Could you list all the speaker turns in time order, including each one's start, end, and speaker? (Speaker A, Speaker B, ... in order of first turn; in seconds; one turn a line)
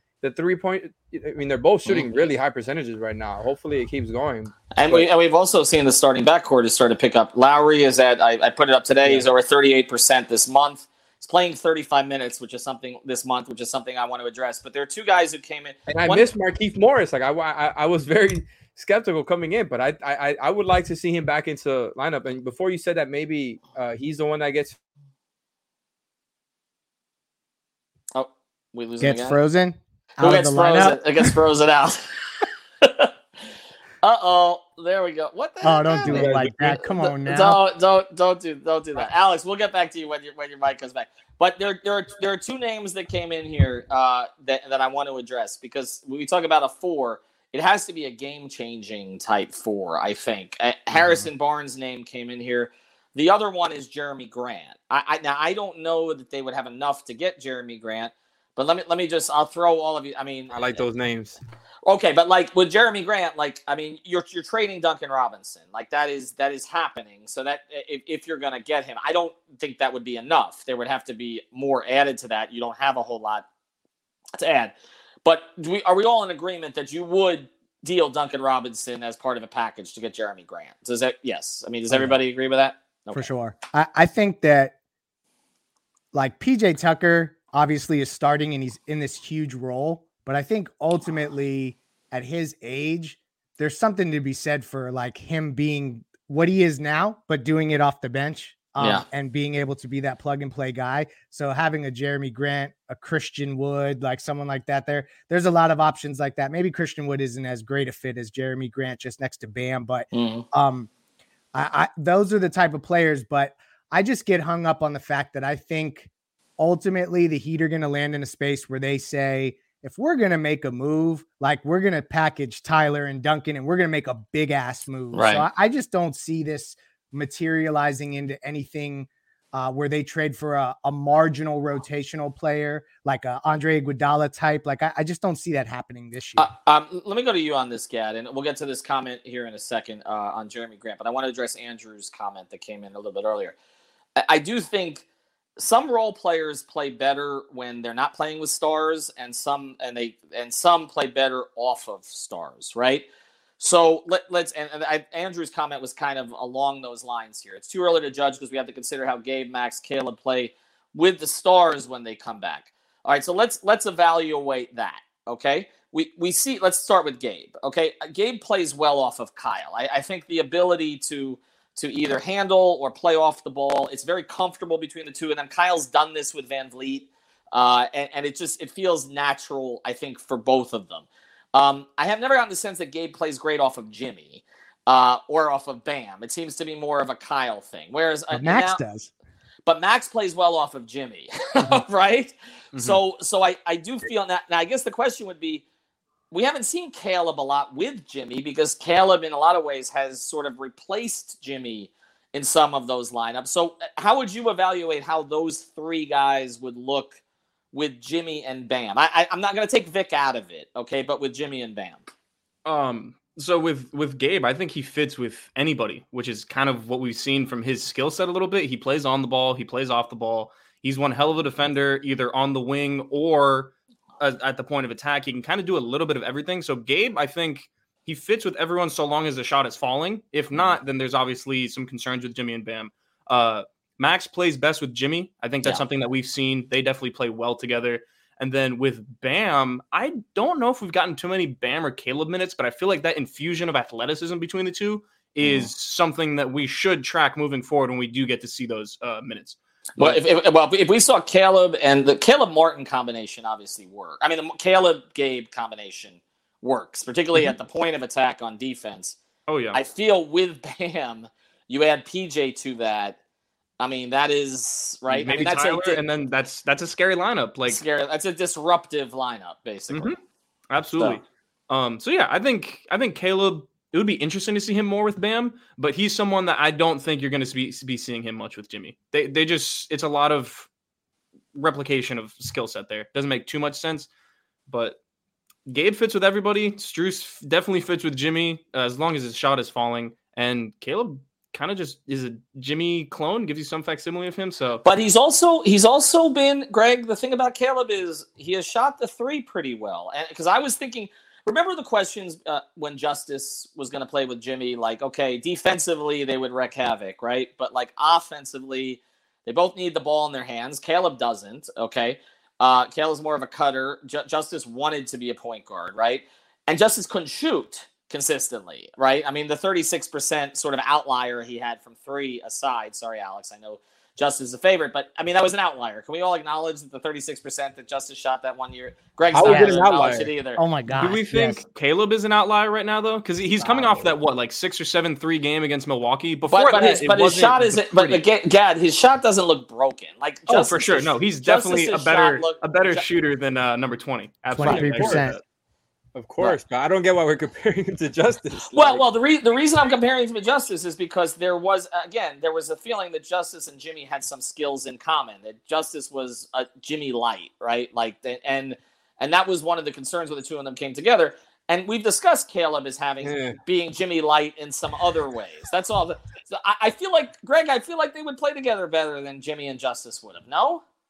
Speaker A: 0.2-5.1
Speaker B: 1.9-2.3
Speaker B: 4.7-16.3
Speaker A: 15.9-24.8
Speaker B: 28.1-29.4
Speaker C: 29.0-31.3
Speaker B: 30.2-33.1
Speaker B: 34.0-60.8
Speaker C: 35.6-37.6
Speaker A: 36.1-36.8
Speaker A: 50.9-51.2
Speaker A: 60.5-61.4
Speaker B: 61.9-73.5
Speaker B: 74.3-83.3
Speaker C: 81.9-82.2
Speaker C: 83.1-84.7
Speaker C: 86.1-110.9
Speaker B: 98.8-99.0
Speaker B: 110.1-110.5
Speaker C: 111.5-136.5
Speaker B: 125.1-125.5
Speaker B: 136.4-143.6
Speaker B: 144.2-145.0
Speaker B: 145.6-153.1
Speaker B: 153.6-188.8
Speaker C: 188.3-189.1
Speaker B: 189.7-195.6
Speaker B: 196.3-207.2
Speaker B: 207.7-212.1
Speaker D: 212.6-250.2
Speaker B: 245.4-245.7
Speaker B: 250.0-259.2
Speaker D: 259.5-259.8
Speaker B: 259.7-263.2
Speaker B: 263.8-266.0
Speaker D: 265.1-267.8
Speaker B: 267.7-270.1
Speaker D: 269.9-270.1
Speaker D: 270.7-280.7
Speaker D: 281.5-284.1
Speaker D: 284.7-285.0
Speaker D: 285.7-294.8
Speaker B: 294.8-330.6
Speaker A: 329.3-330.3
Speaker C: 329.4-329.8
Speaker C: 330.6-331.6
Speaker D: 330.9-338.2
Speaker B: 333.6-333.9
Speaker B: 336.5-343.1
Speaker D: 340.5-345.4
Speaker C: 344.5-345.4
Speaker A: 344.6-345.3
Speaker A: 346.1-349.0
Speaker B: 348.7-370.8
Speaker A: 363.2-363.6